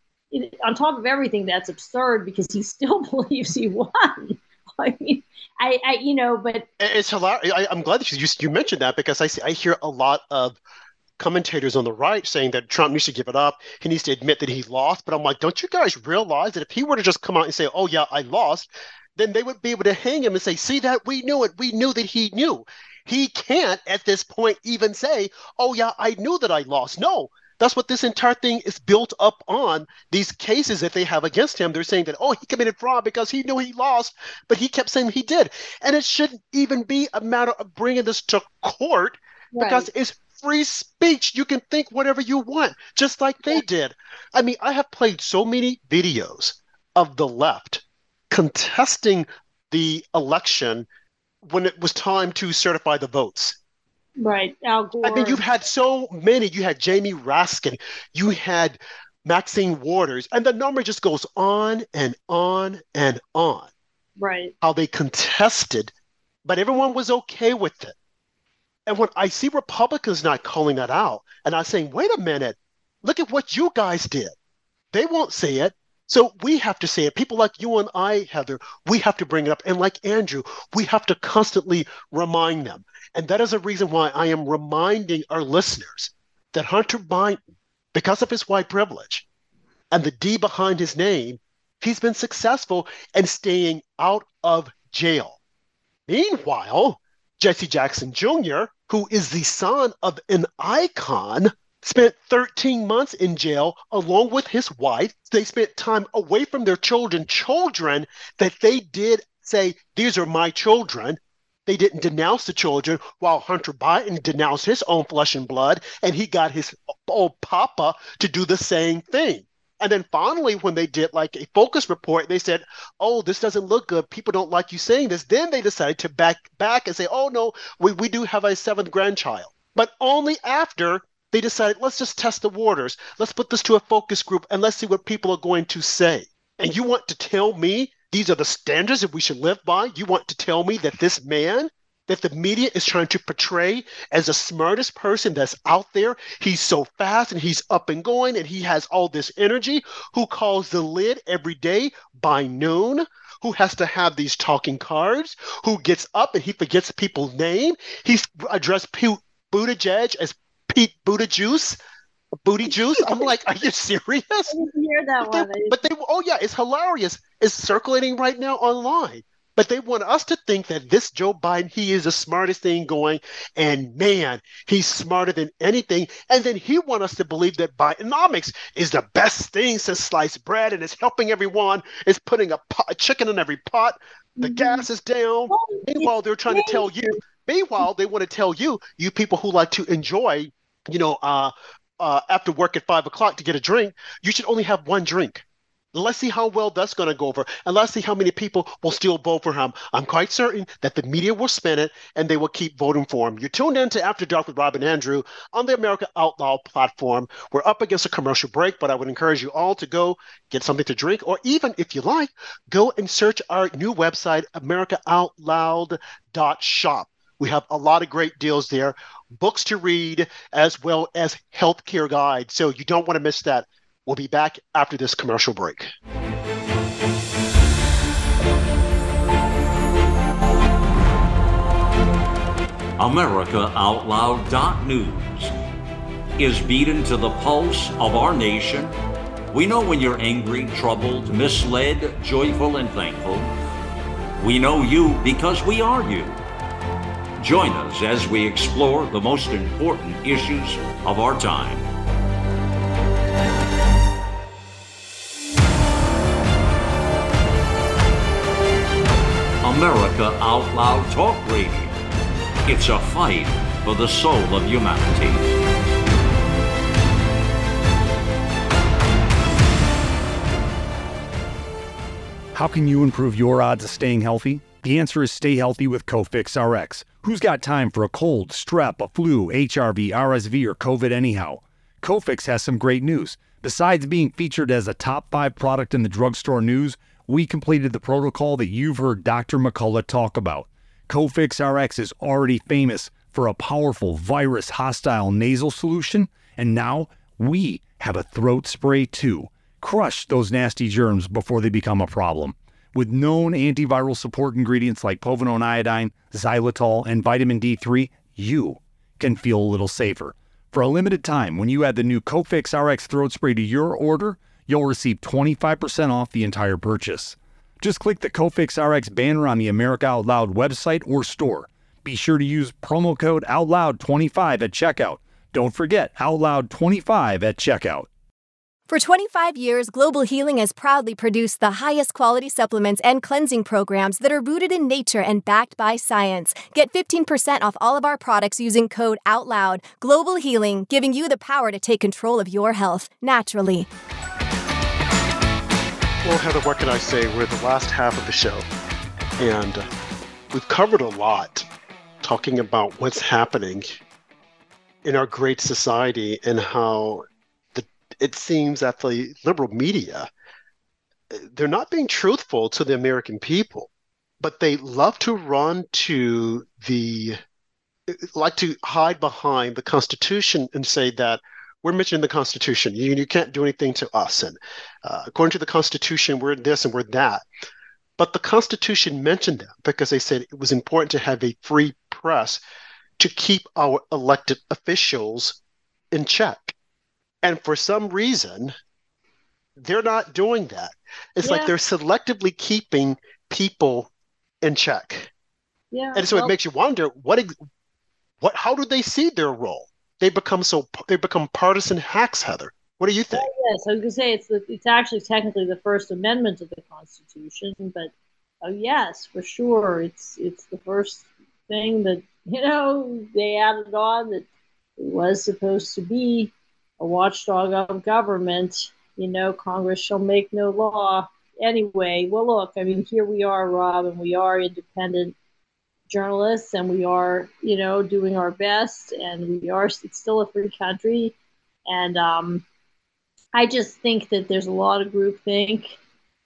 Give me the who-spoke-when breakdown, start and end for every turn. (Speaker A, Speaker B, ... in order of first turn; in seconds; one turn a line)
Speaker A: 0.3-6.7
Speaker B: 6.8-10.6
Speaker B: 11.2-50.9
Speaker A: 39.5-39.9
Speaker B: 51.4-53.6
Speaker A: 54.2-55.4
Speaker B: 55.0-63.7
Speaker A: 64.2-64.5
Speaker B: 64.6-65.9
Speaker B: 66.4-67.9
Speaker B: 68.8-74.3
Speaker B: 74.9-87.4
Speaker B: 87.9-89.2
Speaker B: 89.9-95.4
Speaker B: 96.1-161.8
Speaker B: 162.4-164.6
Speaker A: 162.7-163.3
Speaker A: 164.5-165.8
Speaker B: 165.2-225.9
Speaker A: 184.4-184.8
Speaker A: 185.5-187.1
Speaker C: 233.0-235.5
Speaker C: 236.4-238.9
Speaker C: 239.5-243.5
Speaker C: 244.4-246.4
Speaker C: 247.4-251.9
Speaker C: 259.6-261.9
Speaker C: 262.6-265.4
Speaker D: 272.5-328.1
Speaker E: 328.9-343.9
Speaker B: 346.2-348.6
Speaker B: 349.4-349.9
Speaker B: 350.5-351.7
Speaker B: 352.2-354.0
Speaker B: 355.0-360.3
Speaker B: 361.3-367.4
Speaker B: 368.1-377.4
Speaker B: 378.2-382.6
Speaker B: 383.2-385.6
Speaker B: 386.1-386.7
Speaker B: 387.4-388.7
Speaker B: 389.8-394.1
Speaker A: 391.4-391.7
Speaker B: 394.6-395.3
Speaker A: 395.9-396.5
Speaker B: 396.1-397.5
Speaker B: 398.4-403.5
Speaker A: 403.3-408.1
Speaker A: 408.6-414.4
Speaker A: 415.0-425.3
Speaker A: 426.1-431.3
Speaker A: 431.9-432.6
Speaker A: 433.5-436.0